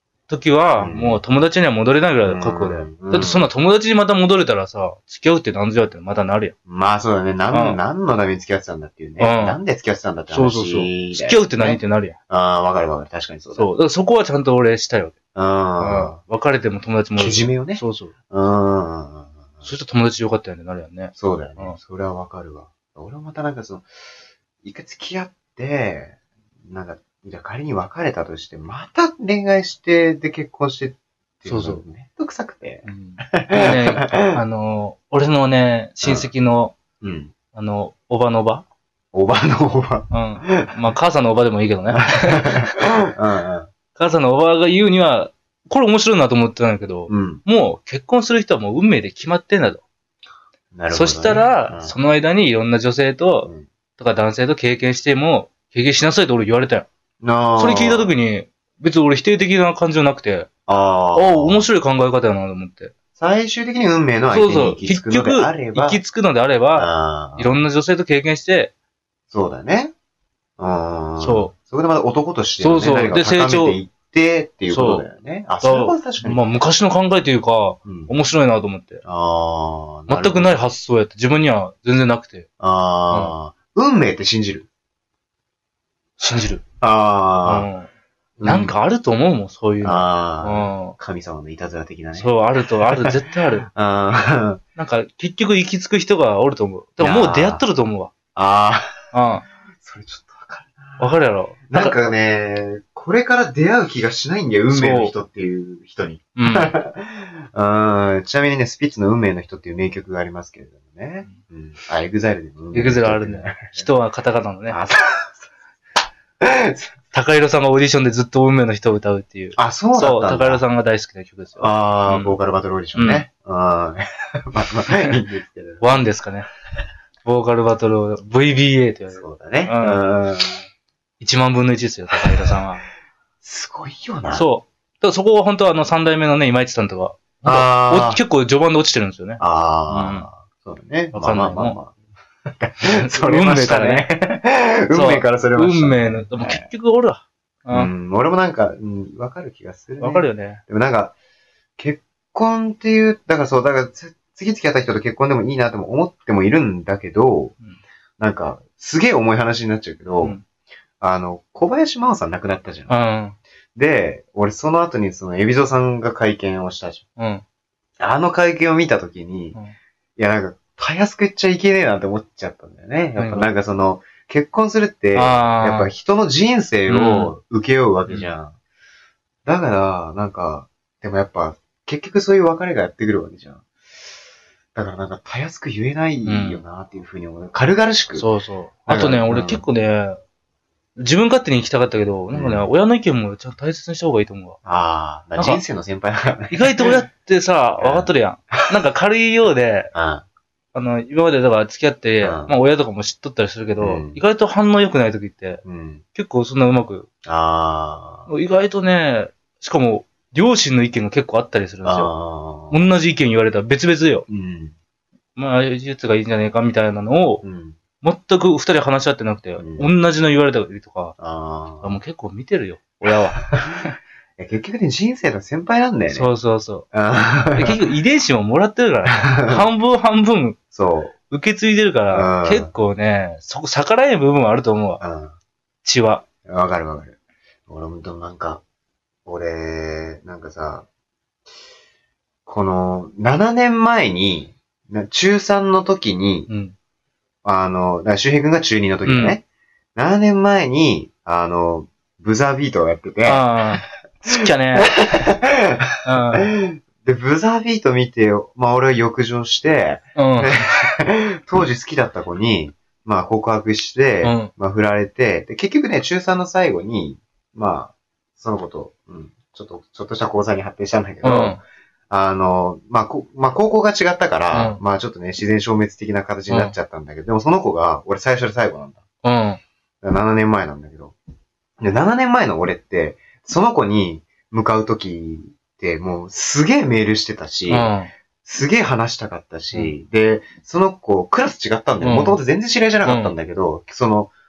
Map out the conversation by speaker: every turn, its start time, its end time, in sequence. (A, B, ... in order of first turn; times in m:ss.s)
0:00.3-0:06.5 A
0:00.8-0:01.2 B
0:02.2-0:03.5 B
0:06.7-0:13.7 B
0:07.5-0:07.8 A
0:09.2-0:09.6 A
0:10.3-0:12.2 A
0:13.6-0:15.1 A
0:15.4-0:16.2 B
0:15.8-0:18.1 A
0:17.2-0:19.6 B
0:19.6-0:21.8 A
0:21.2-0:23.9 B
0:24.6-0:34.4 B
0:31.5-0:31.8 A
0:32.8-0:36.8 A
0:36.0-0:36.3 B
0:37.0-0:37.3 B
0:37.5-0:38.7 A
0:39.1-0:40.7 B
0:40.1-0:42.8 A
0:41.9-0:43.7 B
0:44.0-0:49.8 A
0:47.1-0:47.4 B
0:50.7-0:52.0 B
0:50.9-0:56.9 A
0:57.2-0:58.1 B
0:57.6-1:00.5 A
1:00.7-1:01.7 B
1:01.1-1:02.9 A
1:03.2-1:06.0 B
1:04.3-1:08.7 A
1:06.8-1:07.6 B
1:09.3-1:09.9 B
1:10.6-1:16.4 B
1:11.2-1:11.5 A
1:12.6-1:13.8 A
1:14.7-1:15.1 A
1:15.6-1:19.0 A
1:17.8-1:18.1 B
1:19.0-1:20.6 B
1:20.1-1:22.5 A
1:22.6-1:24.7 B
1:26.2-1:26.6 A
1:26.8-1:27.7 B
1:27.5-1:27.9 A
1:28.4-1:28.7 B
1:28.4-1:31.0 A
1:29.8-1:34.6 B
1:32.2-1:33.7 A
1:34.8-1:38.1 A
1:37.0-1:37.6 B
1:38.4-1:39.1 B
1:39.1-1:39.4 A
1:39.8-1:41.1 B
1:41.0-1:42.0 A
1:41.7-1:53.9 B
1:44.7-1:45.1 A
1:46.4-1:46.8 A
1:52.7-1:54.8 A
1:54.7-1:55.5 B
1:56.4-1:57.0 B
1:57.1-2:02.4 A
1:59.6-2:00.6 B
2:01.6-2:06.1 B
2:03.0-2:03.3 A
2:05.8-2:06.5 A
2:07.2-2:10.0 A
2:09.1-2:10.6 B
2:11.2-2:12.8 A
2:13.4-2:14.4 B
2:14.3-2:20.3 A
2:17.4-2:18.2 B
2:19.4-2:22.0 B
2:21.1-2:21.8 A
2:22.5-2:26.7 B
2:22.8-2:24.1 A
2:24.9-2:27.9 A
2:27.7-2:31.2 B
2:30.0-2:30.6 A
2:31.8-2:37.5 B
2:38.2-2:40.4 B
2:41.0-2:43.0 B
2:42.9-2:43.4 A
2:43.8-2:47.0 B
2:47.2-2:47.4 A
2:48.0-2:49.6 B
2:50.2-2:58.6 B
2:53.2-2:53.5 A
2:55.2-2:55.9 A
2:56.9-2:57.3 A
2:59.4-3:03.7 B
3:04.8-3:08.3 B
3:06.2-3:06.6 A
3:08.2-3:10.2 A
3:08.9-3:09.7 B
3:11.0-3:14.6 A
3:12.3-3:12.7 B
3:14.6-3:17.0 B
3:15.4-3:15.6 A
3:16.5-3:19.9 A
3:17.8-3:18.1 B
3:19.9-3:20.2 B
3:20.7-3:25.6 A
3:22.2-3:22.5 B
3:23.8-3:24.2 B
3:25.6-3:26.0 B
3:26.1-3:27.1 A
3:27.2-3:28.3 B
3:28.3-3:32.1 A
3:31.8-3:32.9 B
3:32.7-3:34.2 A
3:34.3-3:34.8 B
3:35.4-3:37.4 A
3:37.4-3:37.8 B
3:38.0-3:41.2 A
3:39.6-3:39.9 B
3:41.2-3:42.0 B
3:41.8-3:44.0 A
3:44.4-3:46.3 B
3:46.1-3:46.9 A
3:46.9-3:47.8 B
3:47.6-3:50.6 A
3:49.1-3:49.7 B
3:50.7-3:51.2 B
3:51.3-3:55.0 A
3:52.1-3:52.7 B
3:55.0-3:55.3 B
3:55.8-3:56.2 A
3:56.5-3:57.2 B
3:57.7-3:58.6 B
3:59.3-4:00.9 B
4:02.5-4:06.5 B
4:06.5-4:06.8 A
4:07.4-4:09.4 B
4:09.1-4:09.4 A
4:10.0-4:13.5 B
4:13.2-4:14.9 A
4:14.8-4:39.0 B
4:16.0-4:16.5 A
4:20.2-4:20.8 A
4:24.2-4:24.5 A
4:31.2-4:31.6 A
4:34.5-4:34.8 A
4:36.5-4:36.8 A
4:39.2-4:39.6 A
4:40.0-4:41.2 B
4:41.8-4:54.3 B
4:47.7-4:48.1 A
4:52.0-4:52.4 A
4:53.0-4:53.4 A